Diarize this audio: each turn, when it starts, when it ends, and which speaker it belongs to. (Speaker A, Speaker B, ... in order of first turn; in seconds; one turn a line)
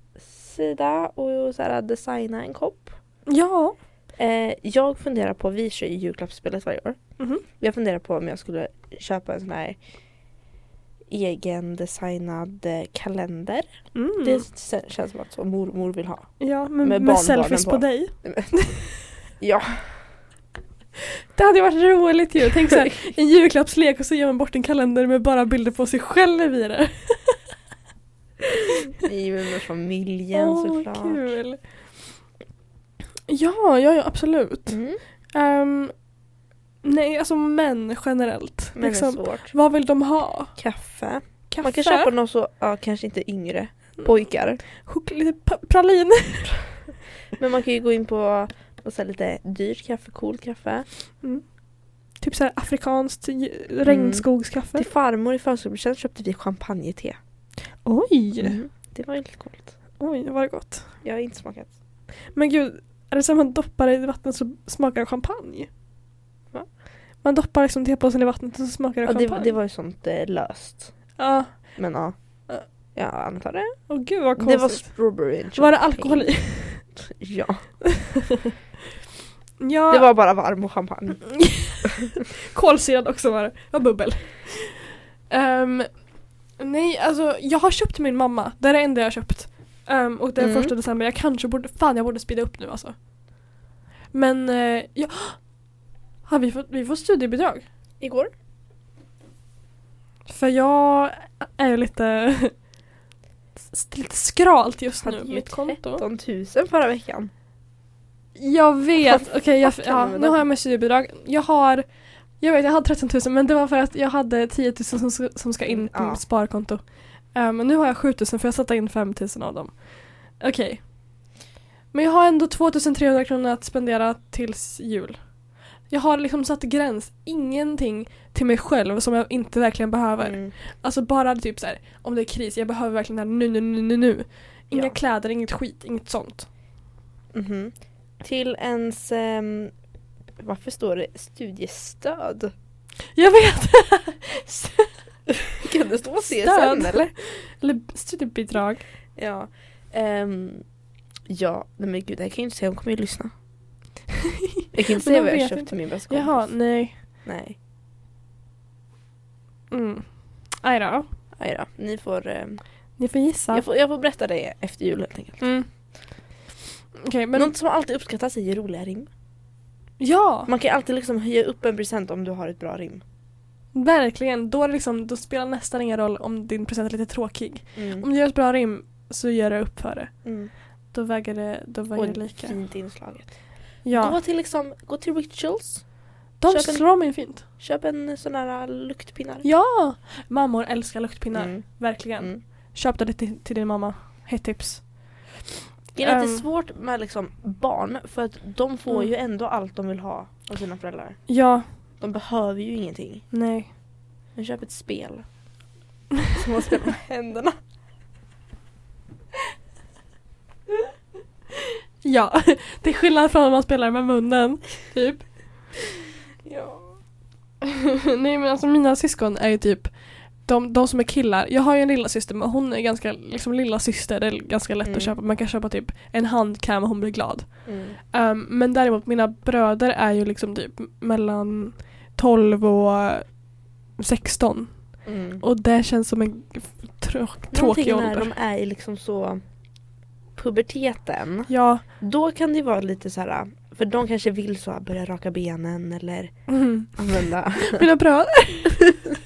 Speaker A: 0.2-3.0
Speaker B: 3.3-3.8
Speaker A: 4.2-7.0
Speaker B: 7.2-7.4
Speaker A: 7.5-9.8
Speaker A: 11.1-18.6
Speaker B: 13.9-14.4
Speaker B: 16.4-18.9
Speaker A: 19.4-20.1
Speaker B: 21.3-27.4
Speaker A: 29.0-31.3
Speaker B: 30.3-31.9
Speaker B: 33.3-34.8
Speaker A: 34.7-35.0
Speaker B: 35.3-36.0
Speaker B: 36.8-40.6
Speaker A: 38.7-39.5
Speaker A: 40.6-44.6
Speaker B: 41.5-42.1
Speaker B: 44.8-46.8
Speaker A: 47.4-50.9
Speaker B: 52.2-54.9
Speaker A: 53.9-57.2
Speaker B: 57.8-58.6
Speaker A: 58.4-59.7
Speaker B: 60.0-60.9
Speaker A: 61.0-61.7
Speaker B: 62.3-65.7
Speaker B: 67.2-69.5
Speaker A: 69.0-71.1
Speaker B: 71.2-71.9
Speaker A: 71.8-72.1
Speaker A: 73.0-77.7
Speaker B: 73.9-76.8
Speaker B: 79.6-80.1
Speaker A: 79.9-81.5
Speaker B: 81.5-93.0
Speaker A: 90.4-90.7
Speaker B: 94.1-95.6
Speaker B: 96.2-97.6
Speaker A: 98.0-98.3
Speaker B: 100.3-102.5
Speaker B: 103.7-106.0
Speaker A: 105.0-107.3
Speaker B: 108.4-120.8
Speaker A: 109.1-110.4
Speaker A: 115.7-116.2
Speaker B: 121.9-125.2
Speaker B: 125.9-136.5
Speaker A: 130.2-130.5
Speaker A: 137.3-139.7
Speaker A: 140.4-142.5
Speaker B: 143.1-144.9
Speaker A: 145.6-147.1
Speaker B: 146.3-148.8
Speaker A: 149.2-150.6
Speaker A: 151.3-153.3
Speaker A: 154.7-156.6
Speaker B: 154.9-156.9
Speaker A: 157.2-157.6
Speaker B: 159.7-161.1
Speaker A: 161.4-162.6
Speaker B: 163.0-163.6
Speaker A: 163.5-165.4
Speaker B: 165.4-165.7
Speaker B: 167.0-167.5
Speaker A: 167.3-169.1
Speaker B: 170.0-170.5
Speaker A: 170.5-173.0
Speaker B: 173.7-180.3
Speaker A: 177.8-178.1
Speaker A: 180.2-180.5
Speaker B: 180.9-182.6
Speaker A: 181.9-189.5
Speaker B: 183.8-184.2
Speaker B: 186.4-187.4
Speaker B: 189.4-195.3
Speaker A: 191.3-192.4
Speaker A: 195.9-201.2
Speaker B: 196.0-196.4
Speaker B: 201.3-201.7
Speaker A: 202.0-203.2
Speaker B: 203.3-203.7
Speaker A: 204.3-205.3
Speaker A: 206.3-207.6
Speaker B: 212.0-215.2
Speaker A: 216.4-216.9
Speaker B: 217.7-238.3
Speaker A: 224.8-225.1
Speaker A: 227.7-228.0
Speaker A: 235.1-235.4
Speaker A: 237.5-239.4
Speaker A: 240.4-246.3
Speaker B: 241.5-241.8
Speaker B: 246.5-247.0
Speaker A: 246.9-247.8
Speaker B: 247.6-249.0